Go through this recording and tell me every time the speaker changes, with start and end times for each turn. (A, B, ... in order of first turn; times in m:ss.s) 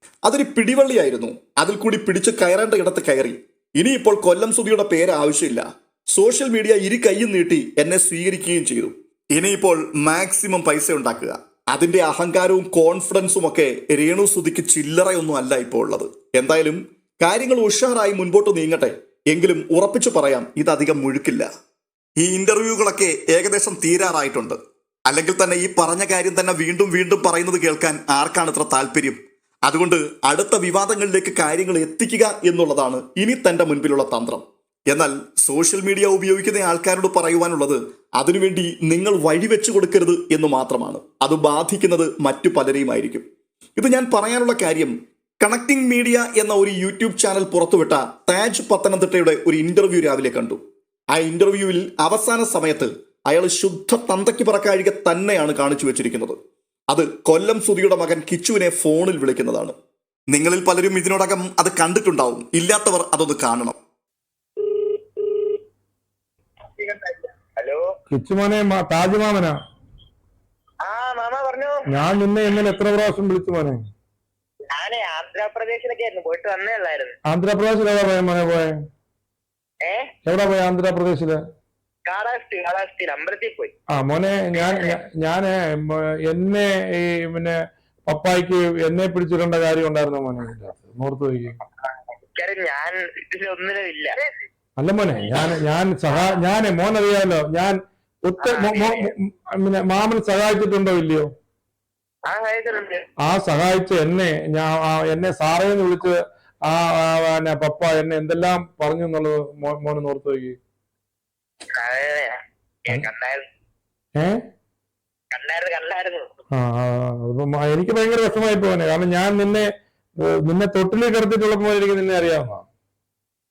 0:00.2-0:21.5 A
0:22.2-0:43.2 A
0:43.8-0:50.6 A
0:51.2-0:56.4 A
0:56.9-0:59.7 A
1:00.3-1:03.8 A
1:04.7-1:05.4 B
1:06.8-1:07.8 B
1:08.1-1:09.6 C
1:10.8-1:11.8 B
1:11.9-1:13.8 C
1:14.7-1:17.2 B
1:17.3-1:18.7 C
1:19.8-1:20.1 B
1:20.2-1:21.4 C
1:22.0-1:23.7 B
1:23.9-1:31.6 C
1:24.5-1:25.0 B
1:31.8-1:34.4 B
1:34.8-1:41.3 C
1:35.3-1:35.6 B
1:38.4-1:39.1 B
1:42.3-1:43.1 B
1:43.2-1:46.2 C
1:46.7-1:50.6 C
1:51.7-1:53.5 B
1:55.3-1:56.3 B
1:56.5-1:59.7 C
2:00.4-2:02.6 C